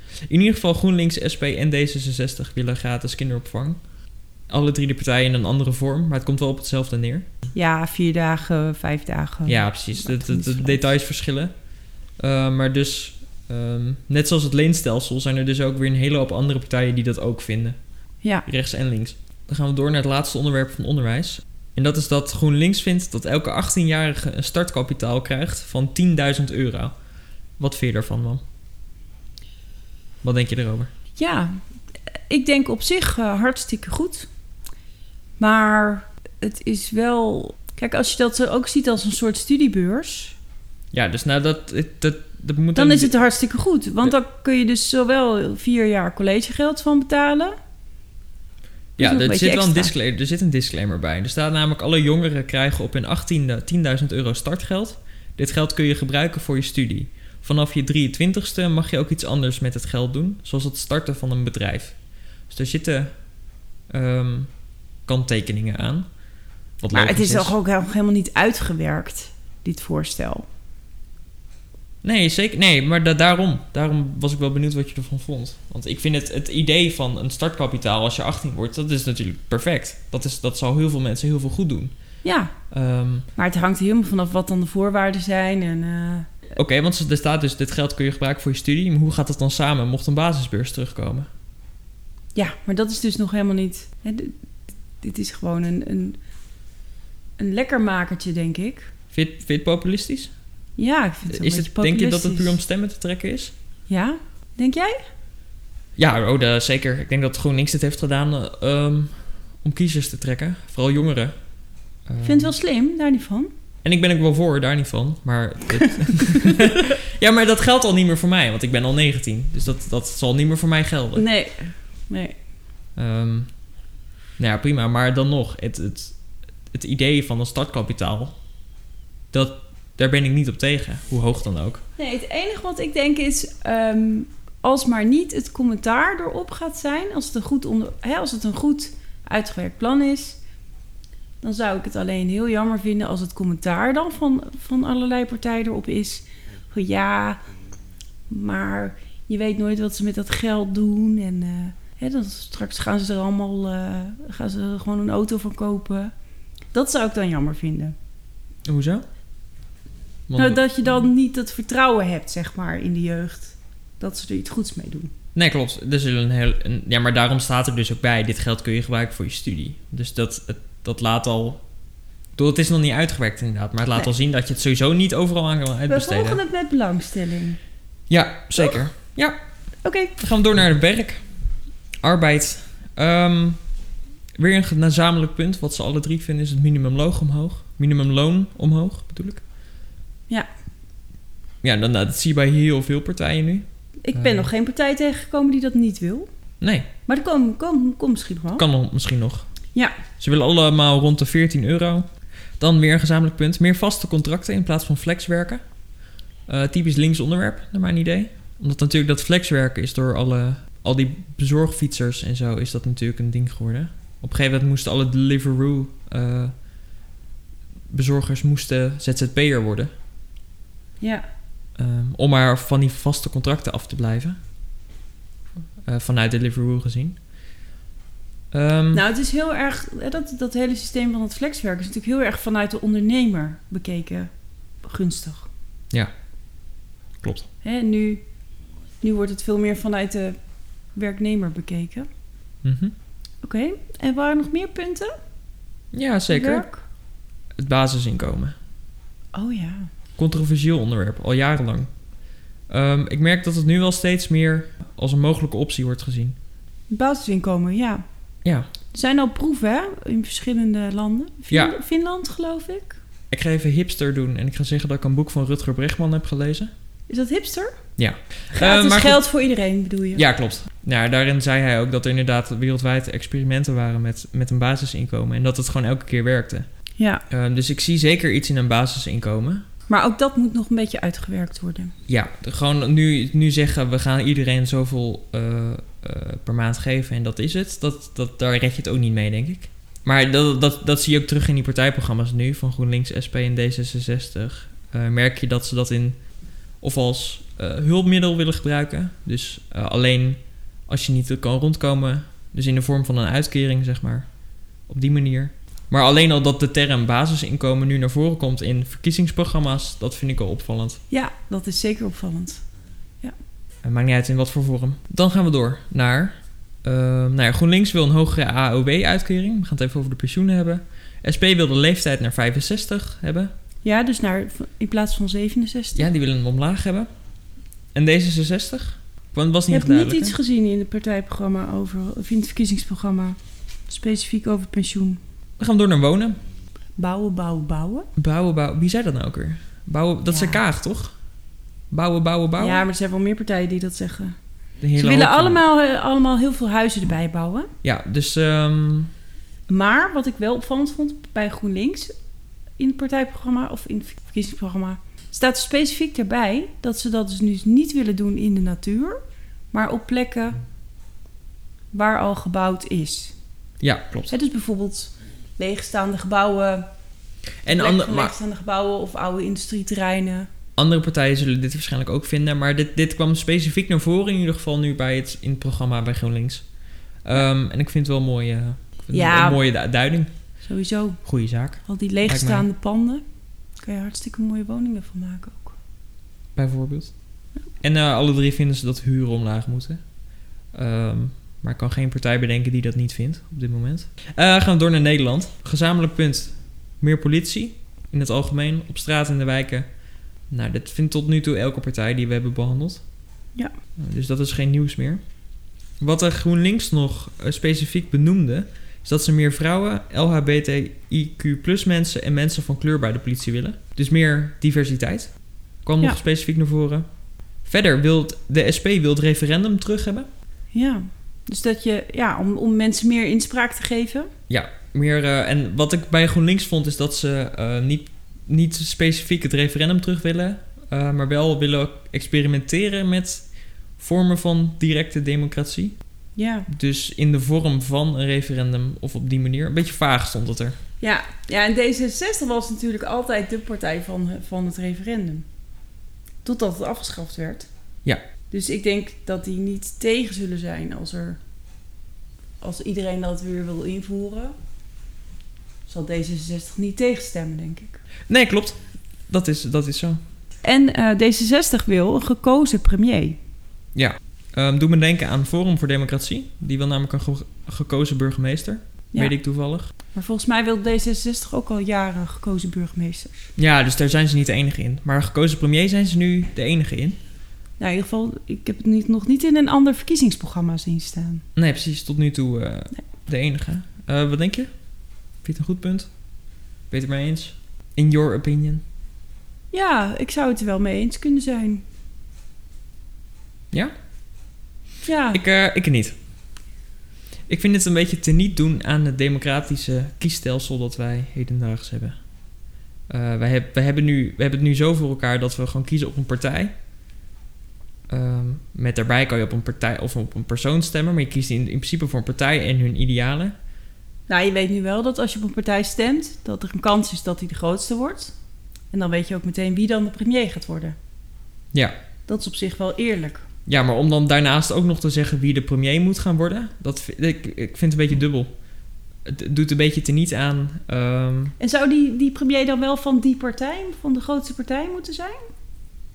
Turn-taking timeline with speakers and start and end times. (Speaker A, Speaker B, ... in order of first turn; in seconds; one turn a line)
Speaker A: 0.3-3.8
Speaker A: 4.5-7.3
Speaker B: 7.5-10.9
Speaker A: 9.5-11.5
Speaker A: 12.2-17.8
Speaker A: 18.5-26.9
Speaker A: 27.6-28.4
Speaker A: 30.2-30.9
Speaker B: 31.2-31.6
Speaker B: 32.3-34.3
Speaker B: 35.4-40.4
Speaker A: 40.9-43.1
Speaker B: 42.8-47.5
Speaker A: 49.0-62.0
Speaker B: 49.0-49.9
Speaker A: 62.5-63.1
Speaker A: 63.9-64.5
Speaker A: 65.1-66.1
Speaker A: 66.8-67.5
Speaker B: 66.9-70.5
Speaker A: 72.0-81.9
Speaker B: 82.2-82.5
Speaker A: 82.7-83.3
Speaker B: 83.4-86.3
Speaker A: 86.6-91.3
Speaker B: 92.3-94.3
Speaker B: 95.0-96.2
Speaker B: 97.4-98.9
Speaker A: 99.1-100.3
Speaker B: 100.8-102.6
Speaker A: 101.3-103.5
Speaker B: 103.9-105.0
Speaker A: 106.0-111.3
Speaker A: 112.1-112.5
Speaker B: 112.2-113.5
Speaker A: 113.8-121.2
Speaker B: 121.2-122.3
Speaker A: 123.0-123.5
Speaker A: 124.4-126.2
Speaker A: 126.7-128.3
Speaker A: 129.3-131.8
Speaker B: 132.0-140.4
Speaker B: 141.4-147.4
Speaker B: 148.3-156.1
Speaker B: 156.7-157.9
Speaker A: 158.7-159.1
Speaker A: 160.3-160.9
Speaker B: 160.4-165.1
Speaker A: 165.3-171.6
Speaker A: 172.4-176.4
Speaker B: 175.9-177.6
Speaker A: 178.1-179.4
Speaker B: 179.8-180.2
Speaker A: 180.2-181.2
Speaker A: 182.0-183.6
Speaker A: 184.4-189.4
Speaker A: 191.6-194.5
Speaker B: 194.0-196.3
Speaker A: 196.6-196.9
Speaker B: 197.1-198.7
Speaker A: 198.6-199.5
Speaker A: 200.2-202.1
Speaker A: 202.6-205.6
Speaker A: 206.5-216.5
Speaker A: 217.9-219.9
Speaker A: 221.8-224.4
Speaker A: 225.8-227.2
Speaker A: 228.5-229.1
Speaker B: 228.9-234.3
Speaker B: 234.8-235.5
Speaker A: 237.2-237.5
Speaker B: 237.6-238.2
Speaker B: 239.0-240.4
Speaker B: 240.9-242.1
Speaker A: 242.6-242.9
Speaker B: 243.4-245.1
Speaker A: 245.9-246.7
Speaker B: 246.3-246.8
Speaker A: 247.6-248.6
Speaker B: 249.3-249.9
Speaker A: 250.2-251.9
Speaker A: 252.7-256.4
Speaker B: 256.9-258.0
Speaker B: 258.9-263.0
Speaker A: 263.3-266.7
Speaker B: 267.1-267.8
Speaker A: 268.0-269.2
Speaker B: 268.5-270.2
Speaker A: 270.1-276.7
Speaker B: 277.0-277.2
Speaker A: 277.3-279.6
Speaker B: 279.9-281.9
Speaker A: 282.1-296.2
Speaker A: 296.8-304.3
Speaker A: 304.9-311.0
Speaker B: 311.1-312.6
Speaker A: 313.8-316.3
Speaker A: 316.8-323.5
Speaker B: 323.8-326.1
Speaker A: 326.0-327.1
Speaker A: 327.9-330.4
Speaker B: 329.7-333.4
Speaker B: 333.9-335.2
Speaker A: 335.6-336.4
Speaker B: 337.0-338.1
Speaker A: 338.2-341.1
Speaker B: 340.3-340.6
Speaker A: 341.9-342.8
Speaker B: 342.6-344.4
Speaker A: 344.8-345.6
Speaker B: 345.0-347.7
Speaker A: 347.8-349.1
Speaker B: 349.7-352.1
Speaker B: 352.8-359.2
Speaker B: 359.7-360.6
Speaker B: 361.9-363.4
Speaker A: 363.8-364.3
Speaker B: 364.3-366.9
Speaker A: 367.6-368.3
Speaker B: 367.7-370.5
Speaker A: 370.8-376.7
Speaker A: 377.2-380.3
Speaker B: 379.1-379.6
Speaker B: 380.6-381.2
Speaker A: 381.2-382.7
Speaker B: 381.9-383.2
Speaker B: 383.8-385.8
Speaker A: 386.6-387.1
Speaker A: 387.8-390.0
Speaker A: 390.7-399.9
Speaker A: 400.5-403.0
Speaker A: 404.0-405.2
Speaker A: 406.0-415.3
Speaker A: 415.8-417.1
Speaker A: 417.6-420.3
Speaker B: 420.7-424.3
Speaker A: 424.5-433.5
Speaker A: 434.0-436.0
Speaker B: 436.4-436.7
Speaker A: 436.7-440.8
Speaker B: 441.0-445.5
Speaker B: 446.4-447.7
Speaker B: 448.5-451.4
Speaker B: 452.6-454.6
Speaker B: 455.9-458.0
Speaker A: 458.3-460.2
Speaker B: 460.6-463.4
Speaker A: 463.9-469.9
Speaker B: 470.1-473.5
Speaker A: 473.6-477.2
Speaker B: 477.8-481.4
Speaker A: 481.6-484.7
Speaker A: 485.4-486.1
Speaker A: 486.9-488.8
Speaker B: 489.7-491.8
Speaker B: 495.0-495.4
Speaker A: 495.3-496.1
Speaker A: 497.5-502.2
Speaker A: 503.1-506.7
Speaker A: 508.1-513.5
Speaker B: 514.3-518.3
Speaker B: 518.9-521.0
Speaker B: 522.3-523.4
Speaker A: 523.7-528.5
Speaker A: 529.2-531.6
Speaker B: 531.6-535.4